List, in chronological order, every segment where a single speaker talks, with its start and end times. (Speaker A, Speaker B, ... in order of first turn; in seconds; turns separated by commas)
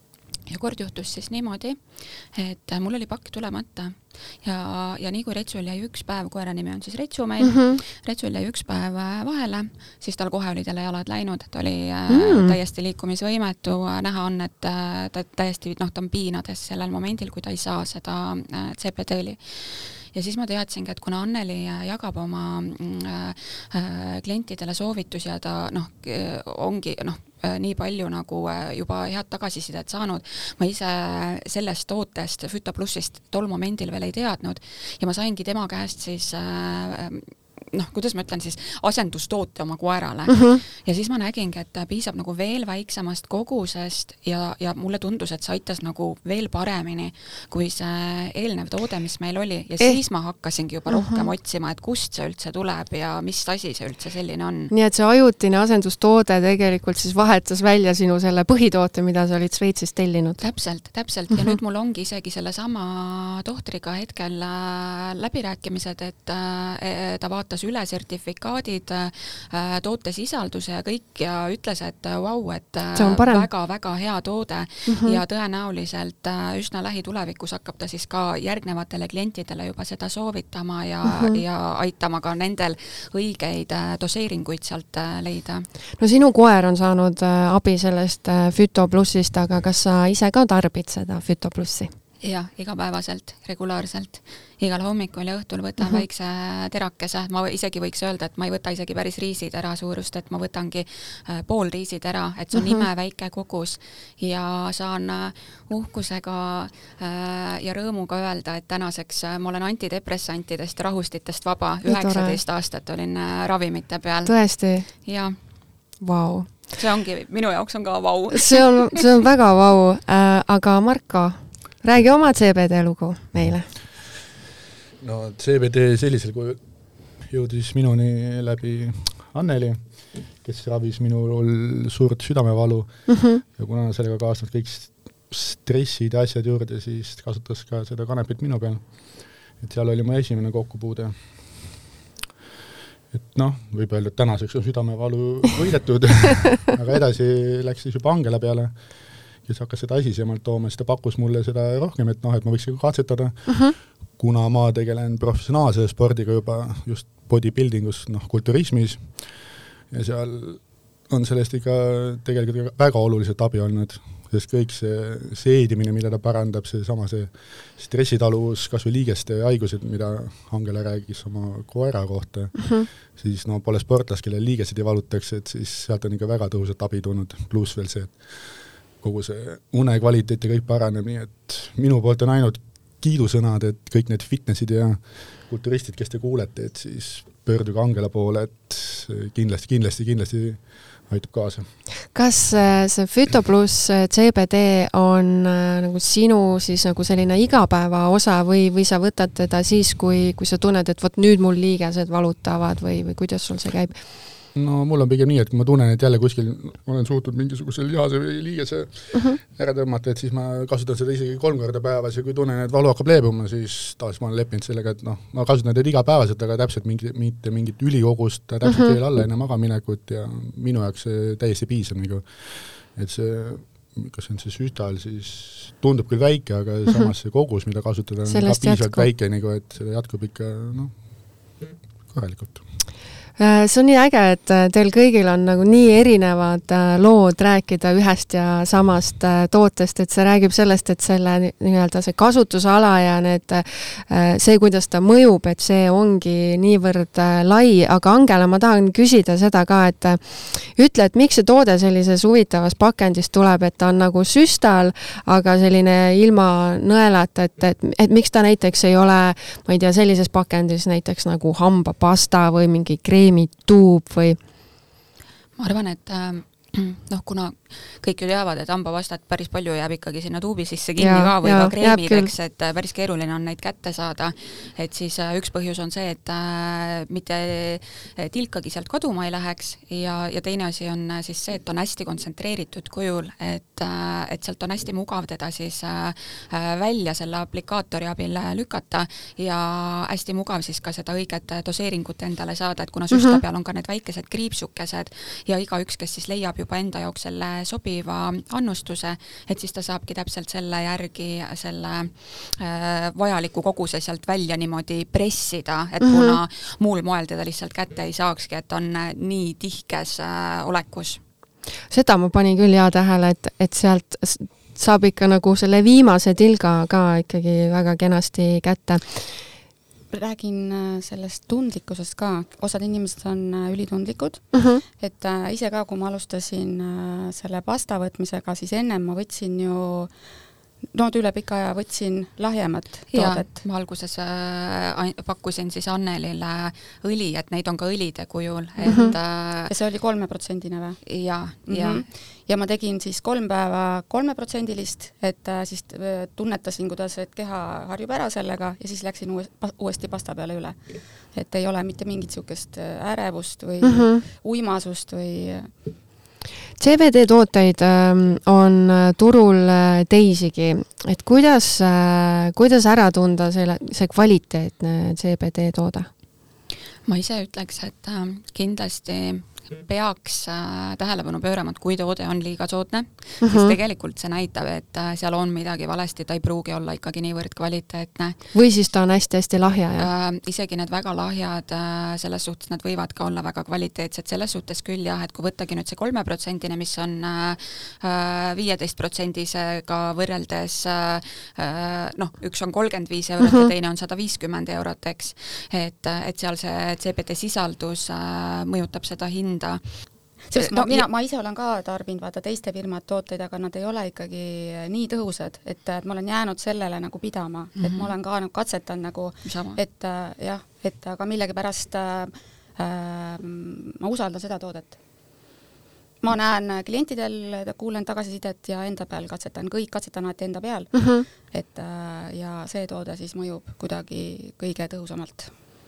Speaker A: 0.5-54.7, Speaker B: 7.4-7.8, Speaker B: 12.1-12.6, Speaker B: 40.3-40.6, Speaker B: 50.9-51.3, Speaker B: 54.7-60.4, Speaker A: 60.4-85.7, Speaker B: 73.0-73.5, Speaker B: 74.9-75.2, Speaker B: 81.1-81.4, Speaker B: 86.0-91.9, Speaker A: 92.2-115.4, Speaker B: 111.9-112.4, Speaker B: 114.3-115.0, Speaker B: 116.0-116.7, Speaker A: 116.8-119.0, Speaker B: 118.4-123.7, Speaker C: 125.0-126.6, Speaker C: 127.2-141.8, Speaker B: 133.1-133.4, Speaker C: 143.1-191.7, Speaker B: 172.6-172.9, Speaker B: 192.1-204.0, Speaker C: 204.6-231.1, Speaker B: 209.1-209.4, Speaker B: 218.7-218.9, Speaker B: 228.3-229.1, Speaker C: 232.1-232.6, Speaker B: 233.4-264.4, Speaker A: 265.6-311.2, Speaker B: 271.0-272.3, Speaker B: 293.1-293.4, Speaker B: 306.0-306.4, Speaker B: 311.9-319.0, Speaker D: 320.1-330.1, Speaker B: 324.5-324.8, Speaker D: 330.9-333.5, Speaker A: 333.1-339.7, Speaker D: 338.8-355.7, Speaker A: 341.1-342.0, Speaker B: 353.8-354.2, Speaker B: 356.8-366.1, Speaker A: 367.1-378.4, Speaker B: 373.4-373.8, Speaker B: 378.5-380.1, Speaker A: 380.0-401.1, Speaker D: 400.5-415.0, Speaker A: 407.8-408.1, Speaker A: 409.4-409.8, Speaker D: 416.2-425.5